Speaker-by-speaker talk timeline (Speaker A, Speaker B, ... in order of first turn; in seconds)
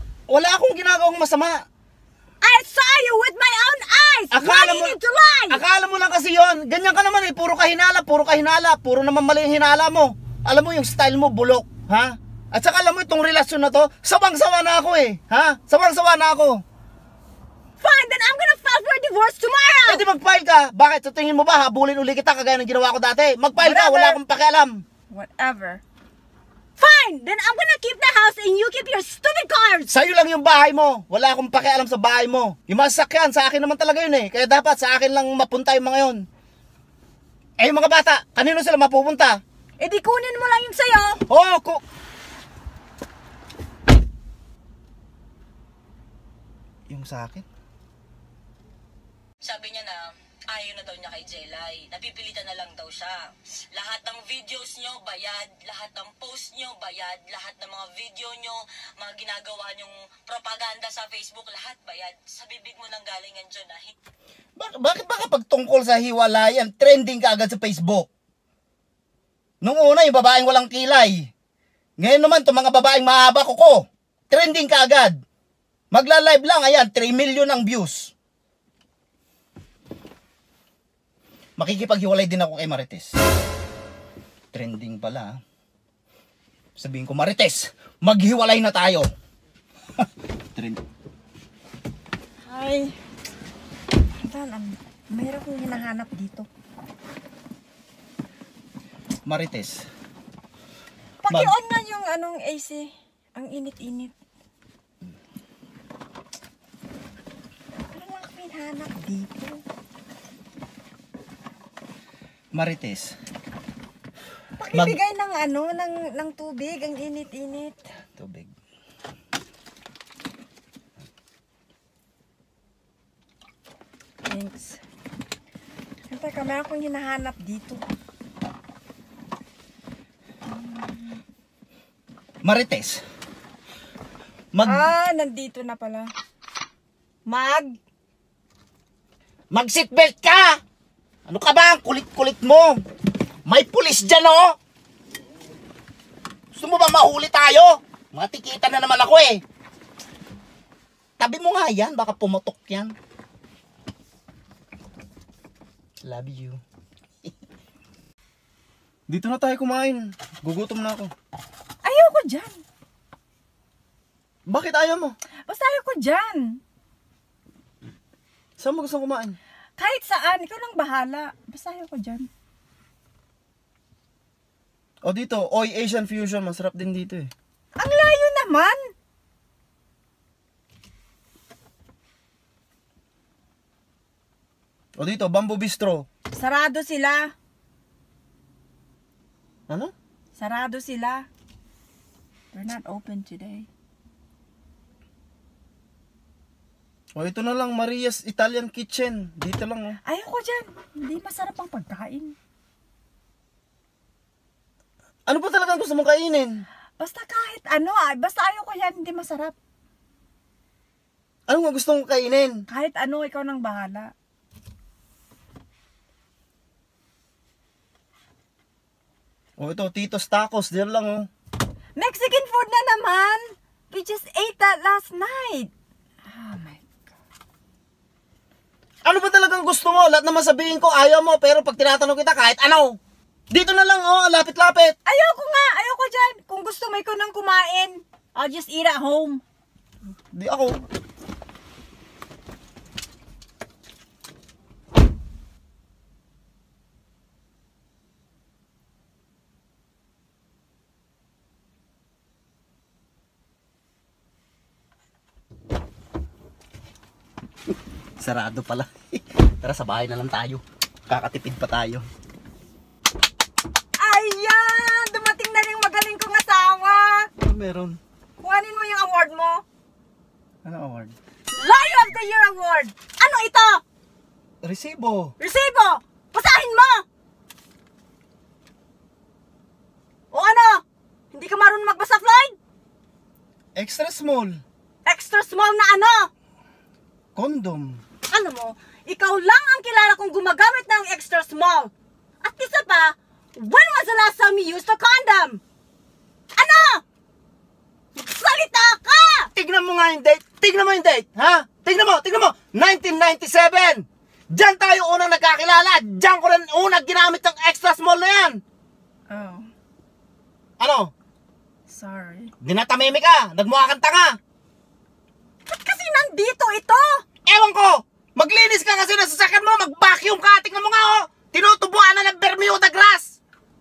Speaker A: 0.3-1.6, 4.3-5.0, 5.5-16.6, 19.9-24.8, 29.9-36.2, 37.6-39.4, 41.3-41.8, 46.9-47.5, 64.6-68.1, 69.6-71.3, 72.0-75.2, 75.9-78.1, 81.6-83.2, 84.5-85.4, 86.8-89.1, 90.0-90.8, 99.2-99.9, 101.3-101.5, 112.5-113.1, 114.7-115.0, 118.2-118.5, 132.4-133.0, 134.5-134.9, 139.5-140.6, 141.3-142.8, 143.4-144.6, 146.5-149.4, 151.2-152.9, 156.0-156.6, 159.1-161.1, 164.5-165.1, 168.6-169.4, 175.0-177.3, 185.0-186.1, 197.2-200.0, 205.3-206.6, 211.5-212.6, 219.6-221.3, 229.0-232.9, 233.5-234.9, 240.3-240.8, 258.2-262.1, 267.4-268.0, 270.6-271.1, 274.6-275.3, 283.8-284.6, 287.3-288.0, 299.5-308.6, 310.8-311.1, 312.6-314.4, 317.4-323.4
Speaker B: 2.4-5.6, 17.8-20.0, 23.6-24.2, 25.1-25.8, 26.8-29.9, 39.8-41.2, 92.5-92.9, 94.2-96.5, 101.2-104.1, 107.9-109.6, 114.6-117.8, 124.2-124.8, 126.1-127.8, 130.5-131.2, 134.6-136.1, 137.3-137.7, 161.8-162.6, 165.5-166.6, 169.8-172.3, 177.8-178.9, 186.3-187.3, 190.3-191.3, 192.5-193.7, 200.1-202.3, 207.0-209.5, 212.7-214.1, 222.0-225.7, 226.3-226.8, 235.1-239.4, 264.0-267.3, 268.4-269.6, 271.5-273.8, 275.4-277.0, 280.3-282.6, 285.1-286.3, 288.3-295.6, 296.6-297.0, 298.1-299.5, 309.3-309.7, 311.9-312.5, 315.7-317.2
Speaker C: 49.4-63.9